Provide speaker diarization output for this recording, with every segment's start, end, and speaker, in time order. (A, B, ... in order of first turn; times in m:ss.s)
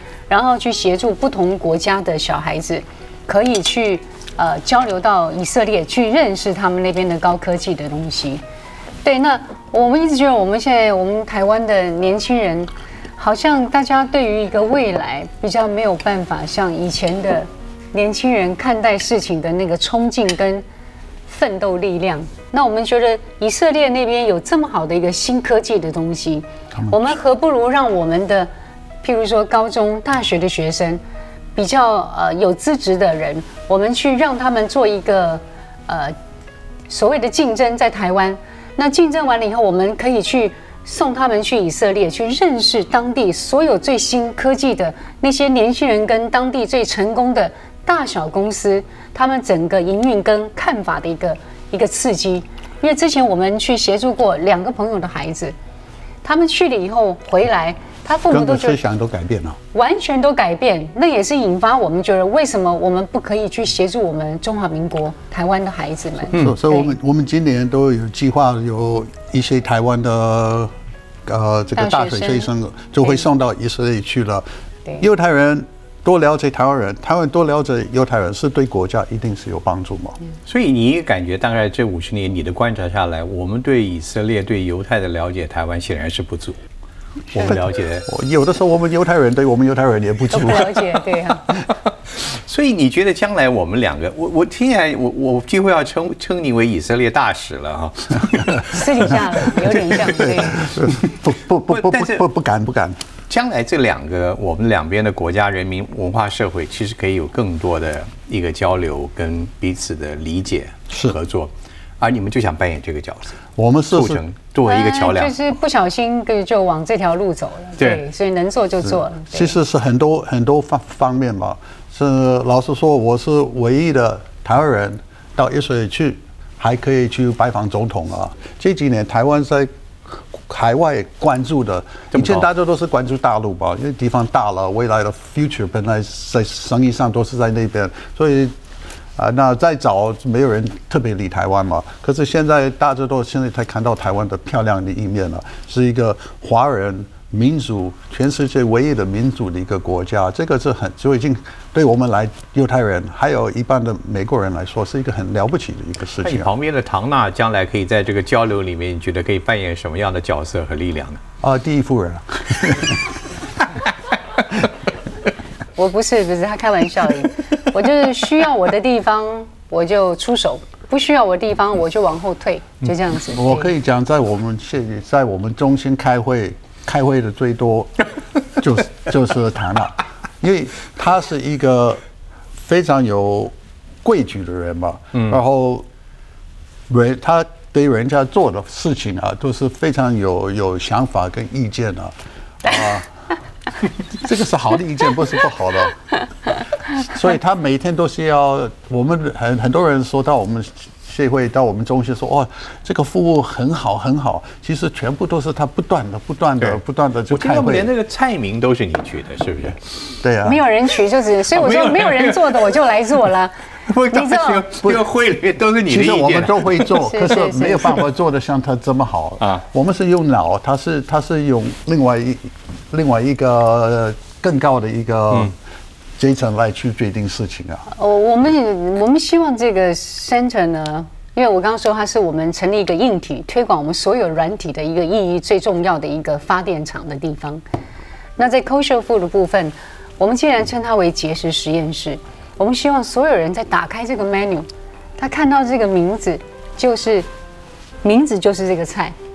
0:00.3-0:08.4 A
0:09.0-0:20.6 A
0:21.3-0:28.5 A
0:26.8-0:27.1 B
0:29.0-0:31.0 A
0:31.6-0:36.2 A
0:36.9-0:55.6 A
0:56.2-0:58.8 A
0:58.3-0:59.6 B
0:59.7-1:06.9 A
1:06.3-1:10.7 B
1:11.3-1:14.5 B
1:11.8-1:12.5 A
1:15.0-1:20.2 B
1:20.5-1:26.6 C
1:27.3-1:28.1 C
1:27.4-1:30.8 B
1:30.3-1:31.5 A
1:32.1-1:42.2 C
1:38.7-1:40.7 A
1:40.1-1:43.0 B
1:43.3-1:53.4 C
1:53.6-1:54.2 B
1:53.9-1:55.4 C
1:54.6-1:59.6 A
1:58.8-2:18.6 B
2:12.1-2:12.4 C
2:19.2-2:36.5 B
2:36.2-2:41.2 C
2:41.4-2:43.0 B
2:45.8-2:53.7 A
2:53.3-3:02.0 B
3:02.6-3:05.9 B
3:06.9-3:13.1 B
3:14.1-3:16.0 B
3:16.9-3:27.9 B
3:26.6-3:29.9 C
3:30.2-3:30.6 B
3:30.4-3:33.5 A
3:31.5-3:32.9 C
3:33.9-3:36.9 C
3:34.1-3:34.6 A
3:35.9-3:45.6 B
3:36.9-3:38.0 A
3:46.2-3:47.9 B
3:47.9-3:57.6 A
3:58.4-4:04.7 A
4:05.2-4:07.3 A
4:08.0-4:09.2 A